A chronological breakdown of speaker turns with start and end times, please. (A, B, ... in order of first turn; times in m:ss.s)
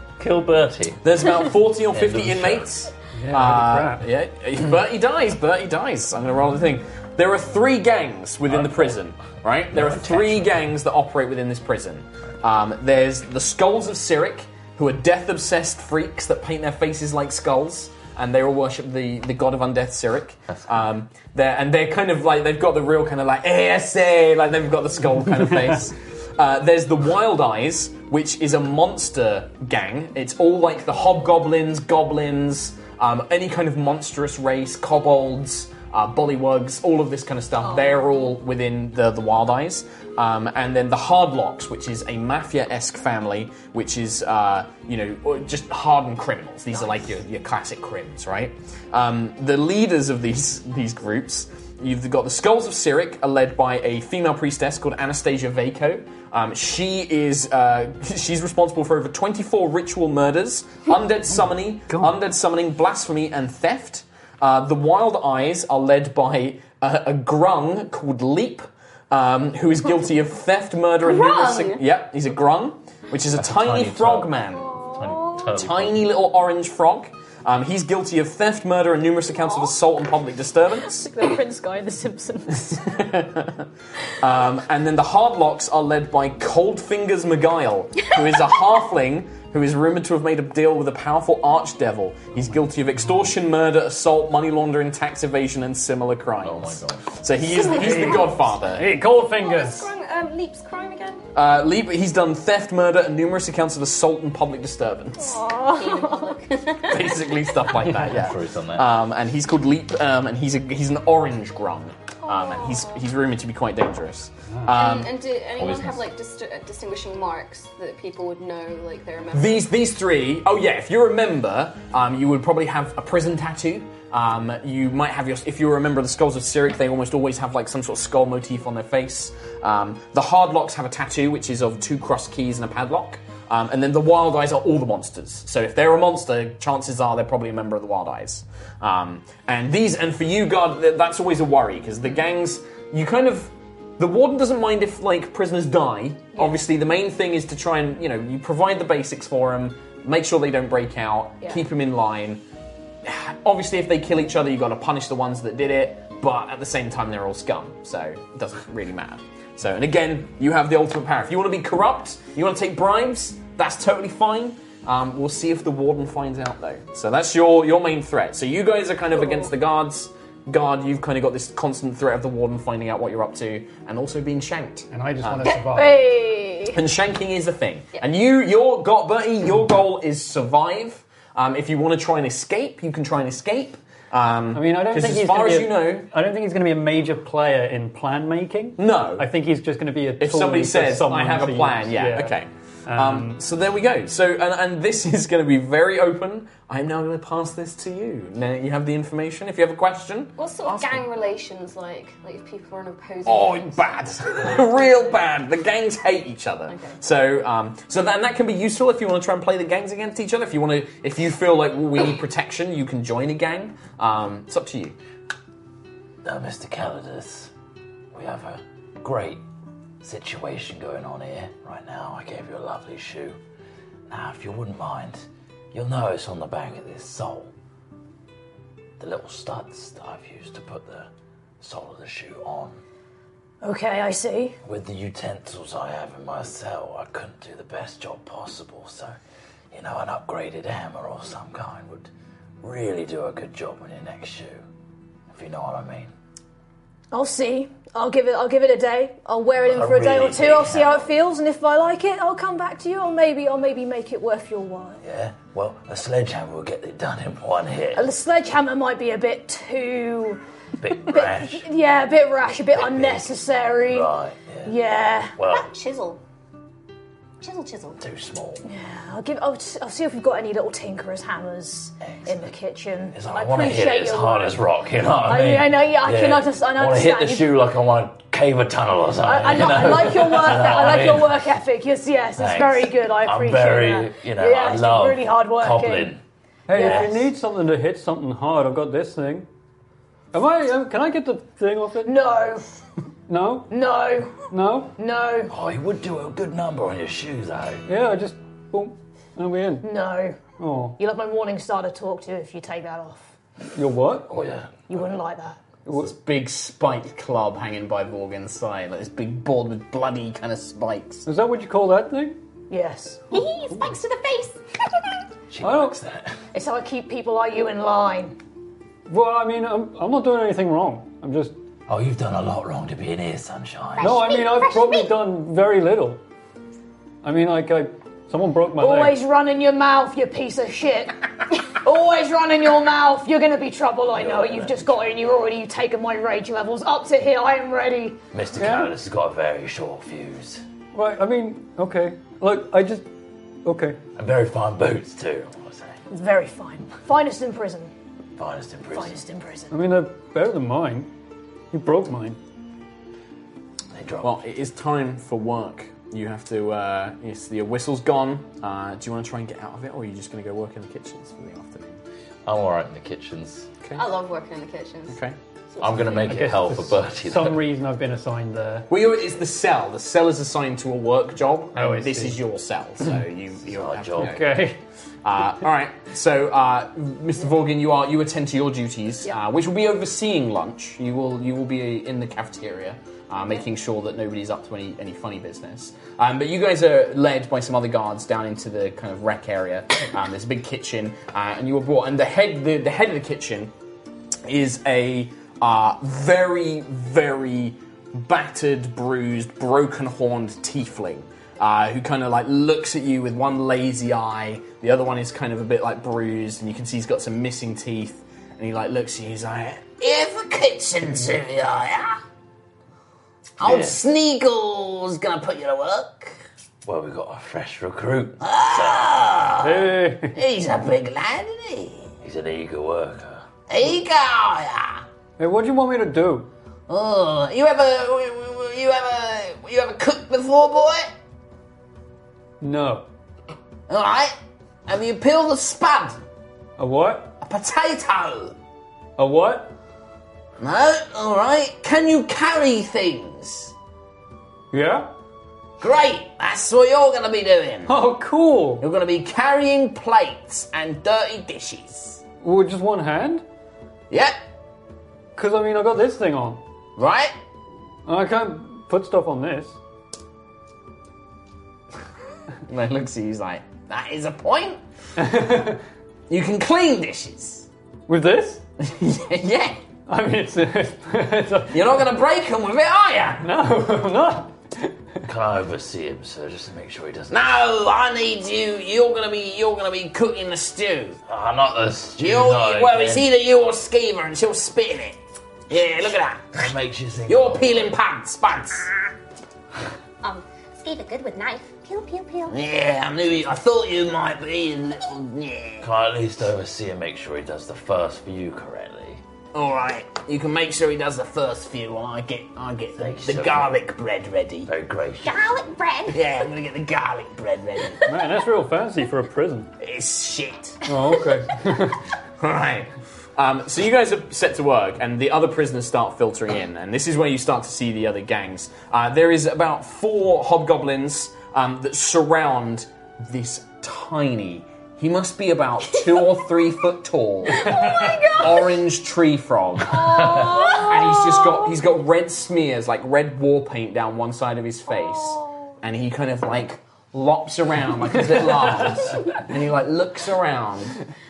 0:00.2-0:01.3 A
0:01.0-1:14.7 B
0:01.9-0:02.7 A
0:03.1-0:04.1 C
0:08.5-0:09.0 A
0:09.7-0:10.6 A
1:01.9-1:02.1 C
1:11.0-1:11.8 D
1:13.4-1:14.4 A
1:14.9-1:16.1 A
1:15.6-1:21.1 B
1:20.9-1:23.0 E
1:22.7-1:23.7 B
1:24.2-1:38.9 B
1:36.4-1:37.2 A
1:37.5-1:38.3 D
1:37.7-1:39.9 C
1:39.2-1:41.2 D
1:41.3-1:45.4 B
1:45.2-1:46.3 E
1:45.6-1:47.4 D
1:46.8-1:55.2 B
1:47.8-1:48.9 A
1:52.3-1:53.0 D
1:54.7-1:59.7 D
1:55.6-1:56.1 A
1:59.3-2:32.4 B
2:33.0-2:55.6 B
2:54.9-2:56.1 C
2:55.7-2:56.8 E
2:56.7-3:06.1 B
3:04.5-3:13.4 C
3:08.8-3:09.3 B
3:10.2-3:21.0 B
3:20.4-3:25.1 D
3:23.2-3:35.0 B
3:26.7-3:27.0 D
3:36.2-3:37.5 A
3:38.1-3:39.4 A
3:40.0-3:43.4 A
3:44.1-3:47.5 A
3:49.0-3:51.1 A
3:51.6-3:52.8 A
3:53.6-3:54.6 E
3:54.6-3:59.2 A
3:59.7-4:02.1 A
4:02.6-4:04.6 A
4:05.3-4:06.1 A
4:07.1-4:15.0 E
4:09.6-4:11.1 A
4:15.0-4:18.1 A
4:17.9-4:20.4 E
4:20.8-4:21.6 A
4:21.0-4:24.1 E
4:22.7-4:24.8 A
4:24.6-4:25.3 E
4:25.4-4:25.7 A
4:25.5-4:26.2 D
4:27.4-4:28.0 D
4:28.0-4:28.6 A
4:28.6-4:34.6 E
4:32.0-4:32.5 A
4:33.1-4:41.4 A
4:35.2-4:37.5 E
4:39.2-4:46.2 E
4:42.4-4:46.2 A
4:46.7-4:49.5 C
4:46.7-4:47.1 E
4:46.7-4:47.3 A
4:50.3-4:52.2 C
4:52.0-4:52.6 E
4:53.3-4:53.7 C
4:53.7-4:55.5 E
4:54.5-4:54.9 C
4:55.5-4:57.8 A
4:57.9-4:59.9 C
4:59.8-5:00.4 E
5:00.6-5:01.0 C
5:01.0-5:03.3 E
5:03.8-5:04.3 C
5:04.3-5:05.1 A
5:04.9-5:05.6 E
5:05.9-5:06.1 C
5:06.0-5:11.2 B
5:11.2-5:12.4 C
5:12.7-5:13.2 E
5:13.3-5:14.6 D
5:15.5-5:16.4 A
5:15.6-5:16.0 C
5:16.5-5:18.4 E
5:19.1-5:21.6 C
5:21.9-5:24.4 A
5:24.0-5:25.1 D
5:24.0-5:26.2 C
5:27.2-5:29.2 C
5:28.8-5:38.2 E
5:34.1-5:35.2 A
5:38.3-5:40.6 A
5:38.6-5:38.9 C
5:40.9-5:43.1 C
5:43.6-5:44.0 C
5:44.2-5:46.0 A
5:46.1-5:47.9 E
5:48.4-5:49.2 A
5:48.9-5:49.7 E
5:49.7-5:51.1 C
5:51.7-5:52.4 C
5:53.9-5:54.4 A
5:54.2-6:02.0 B
6:02.5-6:03.7 A
6:04.0-6:05.2 D
6:05.1-6:05.4 B
6:05.7-6:06.4 D
6:05.8-6:07.6 A
6:06.2-6:08.9 C
6:08.9-6:14.5 B
6:11.8-6:12.4 C
6:13.6-6:14.4 A
6:14.2-6:14.8 C
6:15.2-6:33.7 B
6:34.5-6:49.9 B
6:50.0-6:52.2 F
6:53.6-6:56.4 F
6:53.6-6:54.0 A
6:56.8-6:59.1 A
6:58.4-7:02.2 F
6:59.6-7:00.4 C
7:02.2-7:03.5 A
7:03.7-7:05.0 F
7:05.4-7:06.5 C
7:06.9-7:11.1 F
7:12.6-7:13.1 C
7:13.9-7:14.4 F
7:14.9-7:16.2 F
7:16.8-7:17.3 C
7:17.4-7:18.6 F
7:19.2-7:19.7 C
7:20.6-7:23.7 F
7:24.7-7:25.1 C
7:25.8-7:27.9 F
7:27.9-7:28.9 C
7:28.8-7:32.2 F
7:32.4-7:33.4 C
7:35.4-7:36.6 C
7:37.0-7:37.3 F
7:38.1-7:39.8 C
7:42.7-7:43.8 B
7:43.8-7:44.8 F
7:45.2-7:45.8 C
7:46.3-7:47.7 F
7:48.1-7:48.6 C
7:48.8-7:49.7 B
7:50.1-7:51.9 C
7:52.0-7:53.4 F
7:53.4-7:55.2 C
7:55.3-7:57.6 A
7:57.3-8:01.2 F
8:01.3-8:03.3 A
8:02.2-8:05.2 F
8:05.7-8:06.5 F
8:06.6-8:07.9 A
8:07.3-8:08.9 F
8:10.2-8:12.6 D
8:12.5-8:15.8 F
8:15.8-8:19.2 A
8:19.5-8:24.7 F
8:23.0-8:23.8 A
8:24.6-8:25.6 A
8:25.2-8:26.2 D
8:26.1-8:28.0 F
8:28.0-8:29.7 C
8:29.8-8:30.8 F
8:30.9-8:32.0 C
8:32.4-8:47.8 B
8:46.1-8:46.4 D
8:47.5-8:48.8 D
8:47.6-8:48.2 C
8:48.3-9:01.0 B
8:49.9-8:51.7 D
8:50.0-8:50.6 A
8:55.0-8:55.4 D